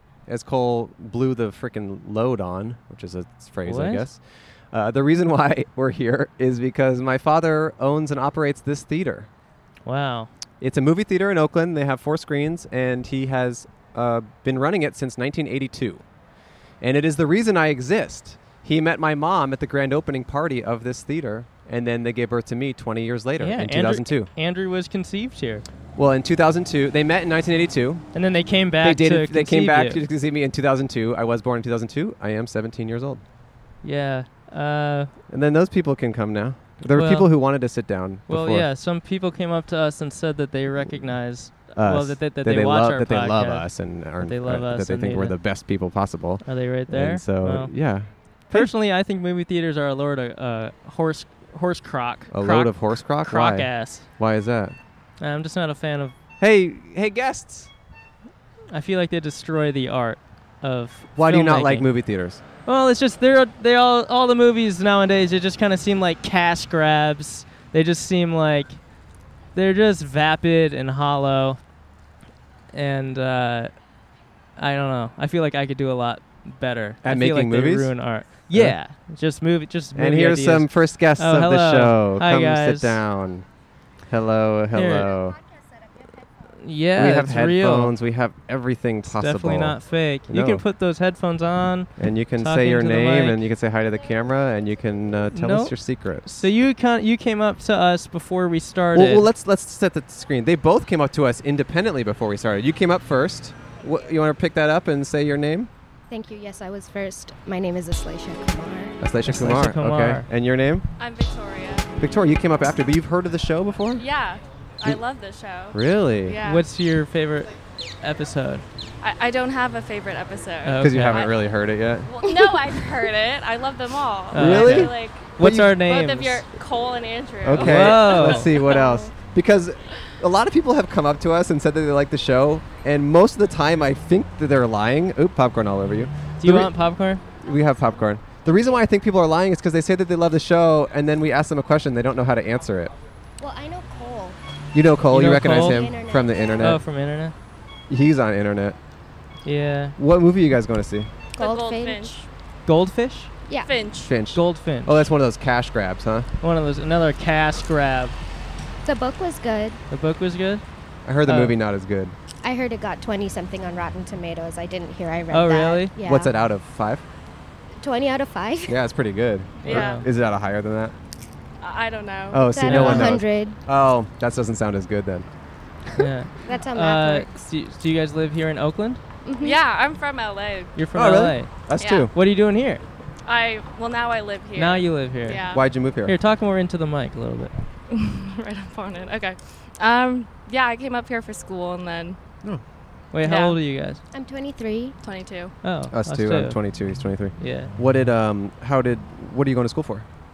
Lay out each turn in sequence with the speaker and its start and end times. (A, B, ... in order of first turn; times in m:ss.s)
0:00.3-0:09.3 A
0:03.6-0:04.0 B
0:09.8-0:10.3 B
0:10.6-0:16.0 A
0:16.8-0:24.3 A
0:23.4-0:25.6 B
0:26.0-0:28.0 A
0:28.1-0:30.0 B
0:28.8-0:33.2 A
0:33.8-0:35.1 B
0:35.3-0:38.7 A
0:36.9-0:37.3 B
0:38.3-0:45.4 B
0:40.8-0:48.7 A
0:46.4-0:54.1 B
0:52.3-0:54.8 A
0:55.2-0:56.2 B
0:56.4-0:57.7 A
0:58.7-1:01.9 B
1:01.2-1:02.4 A
1:02.6-1:08.8 B
1:09.5-1:11.6 B
1:12.7-1:13.8 B
1:14.6-1:23.0 B
1:17.0-1:18.8 A
1:19.9-1:23.5 A
1:24.1-1:25.4 A
1:24.7-1:25.1 B
1:26.6-1:28.0 B
1:26.9-1:30.6 A
1:29.0-1:33.4 B
1:32.0-1:36.4 A
1:35.3-1:39.3 B
1:38.9-1:45.7 A
1:46.1-1:49.0 C
1:49.0-1:50.8 A
1:49.2-1:50.3 B
1:51.0-1:51.9 D
1:52.0-1:54.0 A
1:54.0-1:56.7 D
1:55.7-1:56.4 A
1:56.4-1:58.6 B
1:59.0-2:09.1 D
2:00.6-2:01.3 B
2:00.8-2:02.1 A
2:04.3-2:06.4 B
2:04.3-2:05.8 A
2:07.4-2:16.7 A
2:07.5-2:08.5 B
2:16.4-2:17.2 B
2:17.4-2:22.9 A
2:23.4-2:24.4 C
2:24.7-2:26.8 A
2:25.1-2:25.9 B
2:25.6-2:26.5 C
2:26.6-2:27.3 B
2:27.9-2:28.8 A
2:29.4-2:30.0 B
2:30.0-2:31.1 A
2:31.4-2:32.2 C
2:31.4-2:32.3 D
2:32.6-2:33.3 B
2:33.4-2:33.7 C
2:33.6-2:34.2 D
2:34.1-2:36.3 A
2:34.3-2:35.0 B
2:36.4-2:38.2 B
2:38.8-2:39.8 C
2:39.9-2:40.6 B
2:41.0-2:42.1 A
2:41.2-2:41.6 B
2:42.4-2:46.3 C
2:45.3-2:45.9 B
2:46.0-2:47.0 A
2:47.8-2:48.8 C
2:48.7-2:50.9 A
2:49.6-2:50.0 B
2:49.6-2:50.1 D
2:51.6-2:52.5 D
2:52.3-2:55.2 A
2:52.4-2:53.6 C
2:52.6-2:53.2 B
2:56.0-2:59.0 B
2:56.4-2:57.3 C
2:59.2-2:59.6 C
2:59.4-3:00.8 D
3:00.7-3:01.5 B
3:00.9-3:02.1 A
3:01.8-3:02.1 D
3:02.1-3:02.8 B
3:03.2-3:05.7 D
3:04.6-3:05.4 B
3:05.5-3:06.2 A
3:06.0-3:07.5 B
3:07.9-3:12.2 D
3:13.1-3:14.0 B
3:13.2-3:13.6 D
3:14.1-3:15.0 C
3:15.0-3:15.5 D
3:15.6-3:16.6 B
3:15.9-3:20.0 A
3:17.4-3:17.7 B